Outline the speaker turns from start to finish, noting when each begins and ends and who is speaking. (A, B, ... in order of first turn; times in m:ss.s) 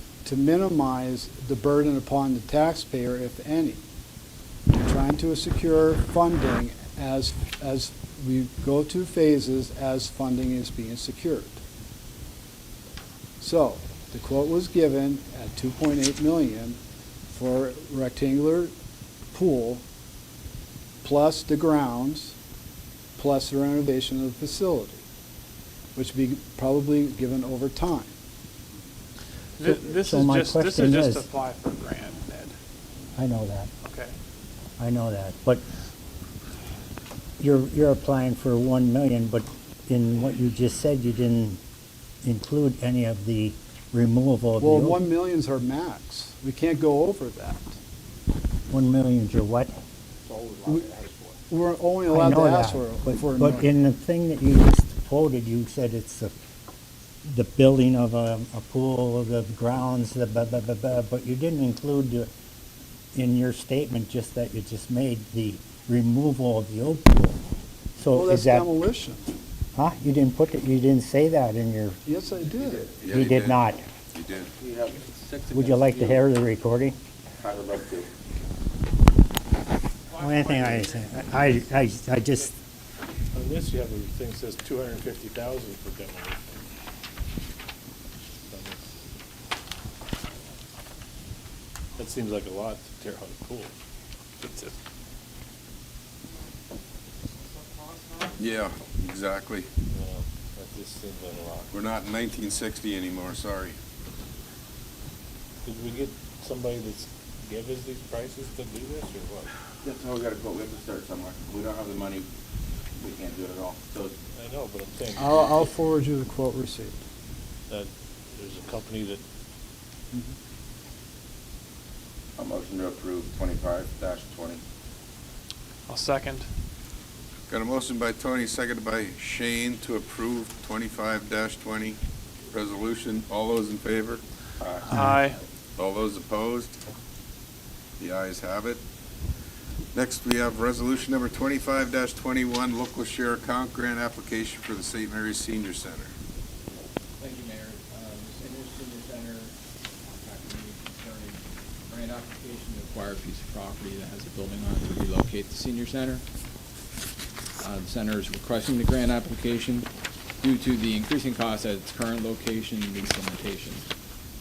0:00.2-0:03.8 A
0:04.7-0:11.6 A
0:13.4-0:16.8 A
0:17.3-0:18.7 A
0:19.3-0:19.8 A
0:21.0-0:22.3 A
0:23.2-0:25.0 A
0:26.0-0:28.1 A
0:29.6-0:32.5 B
0:29.6-0:31.2 C
0:33.2-0:33.7 C
0:33.8-0:34.1 B
0:34.8-0:35.6 C
0:37.4-0:41.6 C
0:42.2-0:45.0 C
0:44.6-0:47.7 A
0:48.7-0:49.7 C
0:50.3-0:51.3 D
0:51.5-0:53.7 A
0:52.1-0:56.3 C
0:57.2-1:02.3 C
1:03.1-1:07.4 C
1:08.0-1:08.7 C
1:08.1-1:09.3 A
1:09.8-1:12.0 C
1:12.0-1:12.9 A
1:12.6-1:12.9 D
1:13.0-1:13.6 E
1:13.1-1:13.8 C
1:14.1-1:14.5 E
1:14.6-1:16.2 D
1:15.5-1:17.0 C
1:17.4-1:18.1 D
1:20.1-1:22.5 C
1:20.2-1:20.7 B
1:23.3-1:26.6 F
1:28.5-1:28.9 F
1:32.0-1:33.7 F
1:34.4-1:34.7 F
1:38.4-1:39.7 E
1:39.9-1:41.7 F
1:41.7-1:43.8 E
1:45.7-1:49.5 F
1:49.8-1:52.3 D
1:53.0-1:54.1 D
1:54.4-1:55.7 F
1:55.2-1:57.0 A
1:57.7-1:59.2 F
2:02.4-2:04.6 D
2:05.9-2:06.5 B
2:07.5-2:12.0 E
2:12.5-2:14.2 E
2:14.6-2:15.1 D
2:14.8-2:15.4 B
2:15.8-2:16.8 E
2:18.0-2:18.8 E
2:19.9-2:26.1 E
2:27.2-2:29.3 F
2:27.4-2:28.0 G
2:28.5-2:29.5 G
2:30.0-2:31.3 F
2:30.2-2:31.4 G
2:31.9-2:32.8 F
2:32.0-2:36.2 G
2:35.2-2:35.5 F
2:37.6-2:39.9 G
2:40.4-2:43.8 G